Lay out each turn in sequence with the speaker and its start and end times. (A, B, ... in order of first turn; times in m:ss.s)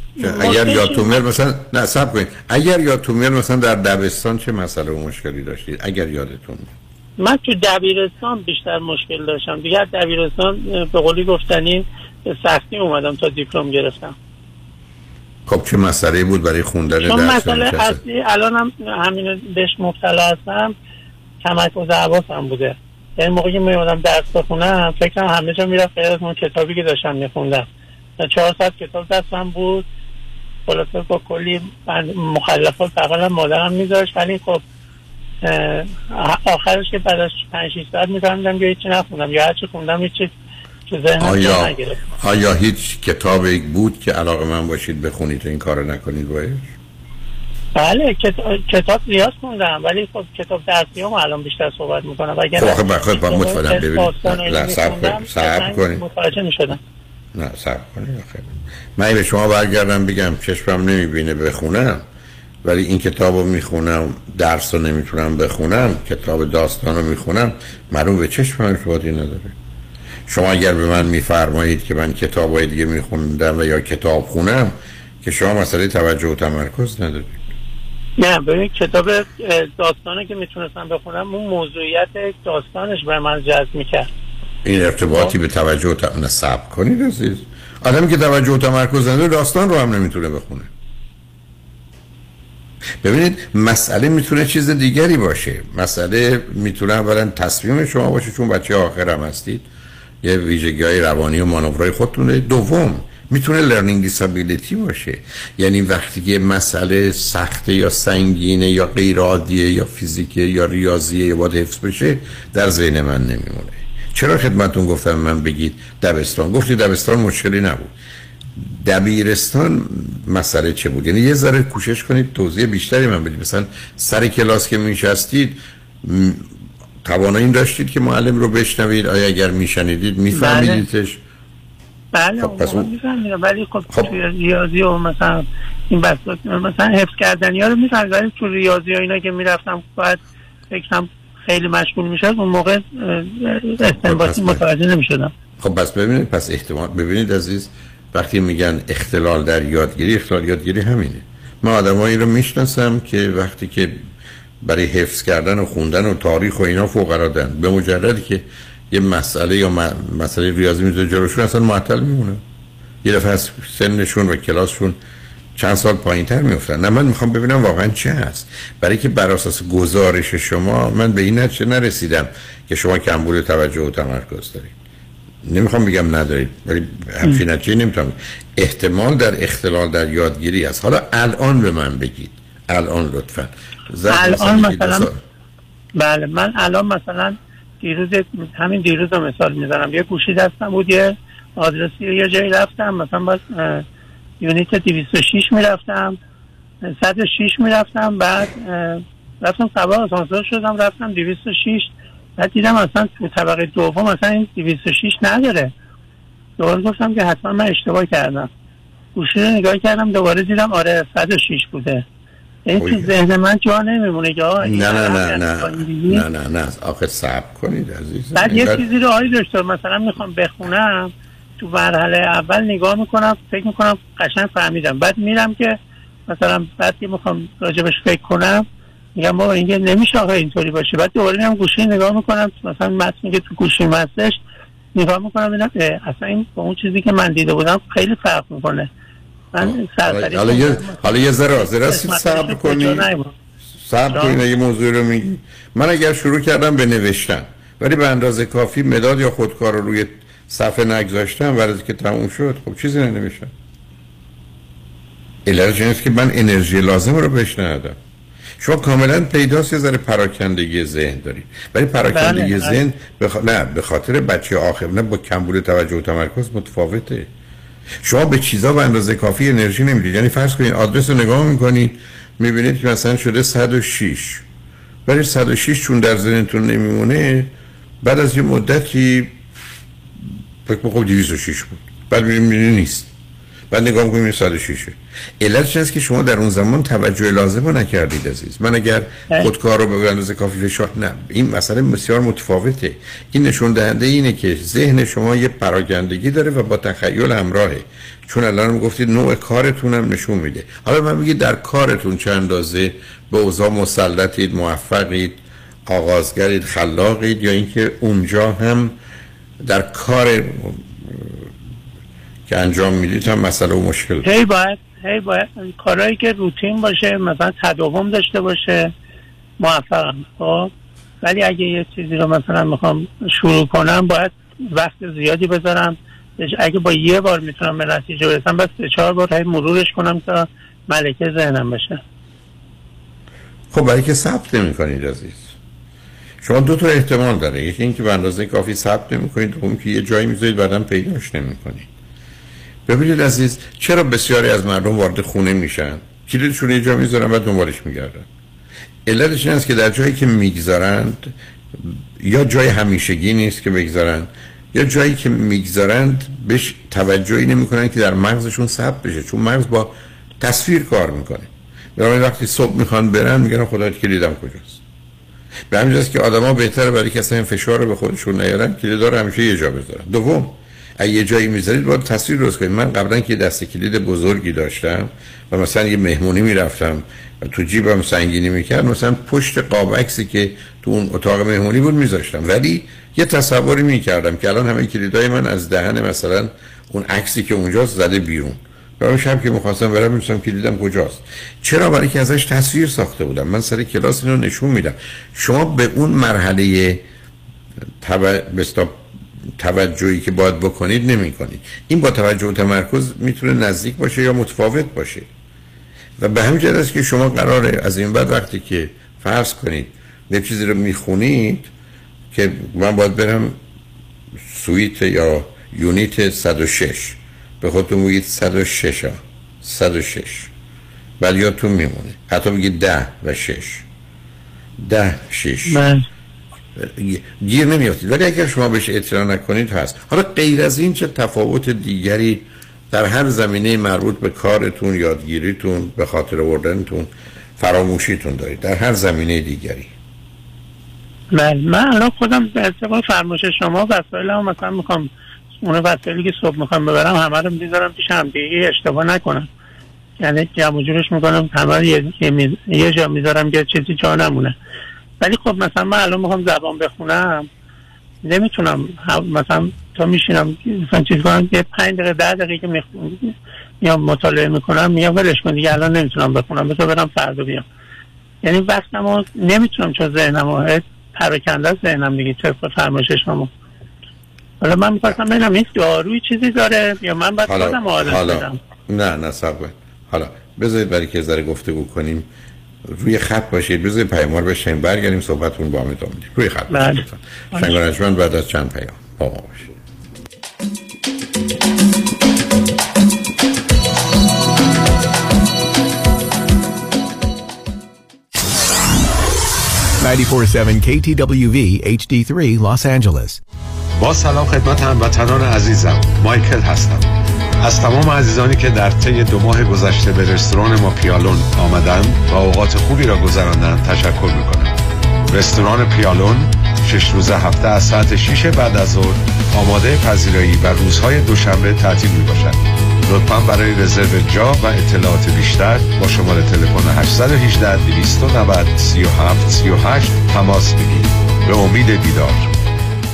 0:00.2-0:01.2 A
0:00.2-0:06.7 B
0:07.2-0:14.1 A
0:15.5-0:18.0 B
0:17.0-0:20.7 A
0:21.4-0:27.7 A
0:28.2-0:29.8 A
0:30.7-0:34.6 A
0:35.4-0:40.3 A
0:40.9-0:42.0 A
0:41.2-0:46.7 B
0:47.8-0:56.8 A
0:52.6-0:56.0 B
0:57.3-1:02.0 B
1:02.6-1:09.5 B
1:10.3-1:17.4 B
1:18.2-1:24.1 A
1:24.6-1:30.7 B
1:33.0-1:39.6 B
1:40.2-1:57.9 B
1:58.6-2:06.5 B
2:07.0-2:11.2 B
2:10.3-2:10.8 A
2:12.1-2:25.3 A
2:12.4-2:12.9 B
2:13.9-2:14.1 B
2:23.9-2:24.6 B
2:25.6-2:34.0 B
2:34.6-2:42.4 B
2:43.0-2:45.0 B
2:45.6-2:54.7 B
2:55.4-3:05.2 B
3:04.1-3:05.1 A
3:06.0-3:13.8 A
3:14.4-3:16.2 A
3:16.8-3:25.7 A
3:26.6-3:28.5 A
3:29.2-3:32.0 A
3:32.6-3:36.2 A
3:32.8-3:33.1 B
3:34.6-3:38.8 B
3:38.4-3:45.8 A
3:46.3-3:48.6 A
3:49.2-3:54.4 A
3:54.9-3:58.9 A
3:59.5-4:03.3 A
3:59.6-4:03.1 B
4:03.8-4:13.5 B
4:04.1-4:04.4 A
4:15.4-4:18.0 B
4:18.6-4:27.3 B
4:22.1-4:22.8 A
4:28.0-4:34.4 B
4:35.0-4:37.5 B
4:38.0-4:39.4 B
4:40.6-4:43.1 B
4:43.7-5:08.9 B
5:09.6-5:11.4 B
5:12.5-5:14.3 B
5:14.2-5:18.9 A
5:19.6-5:20.7 A
5:21.2-5:32.0 A
5:33.7-5:35.5 B
5:36.4-5:41.9 B
5:42.8-5:48.3 B
5:49.0-6:04.8 B
6:05.7-6:37.0 B
6:38.0-6:39.0 B
6:39.6-6:45.3 B
6:46.2-6:51.7 B
6:52.3-6:53.6 B
6:54.5-7:00.5 B
7:01.2-7:03.8 B
7:04.8-7:05.8 B
7:05.7-7:06.0 A
7:06.8-7:19.9 B
7:21.3-7:25.1 A
7:25.6-7:29.5 A
7:30.2-7:34.5 A
7:35.2-7:37.5 A
7:38.2-7:47.6 A
7:48.4-7:53.5 A
7:54.6-7:58.6 A
7:57.4-8:02.3 B
8:02.9-8:09.7 B
8:06.7-8:07.8 A
8:20.0-8:23.4 C
8:24.0-8:27.1 D
8:27.6-8:34.7 D
8:35.3-8:52.5 D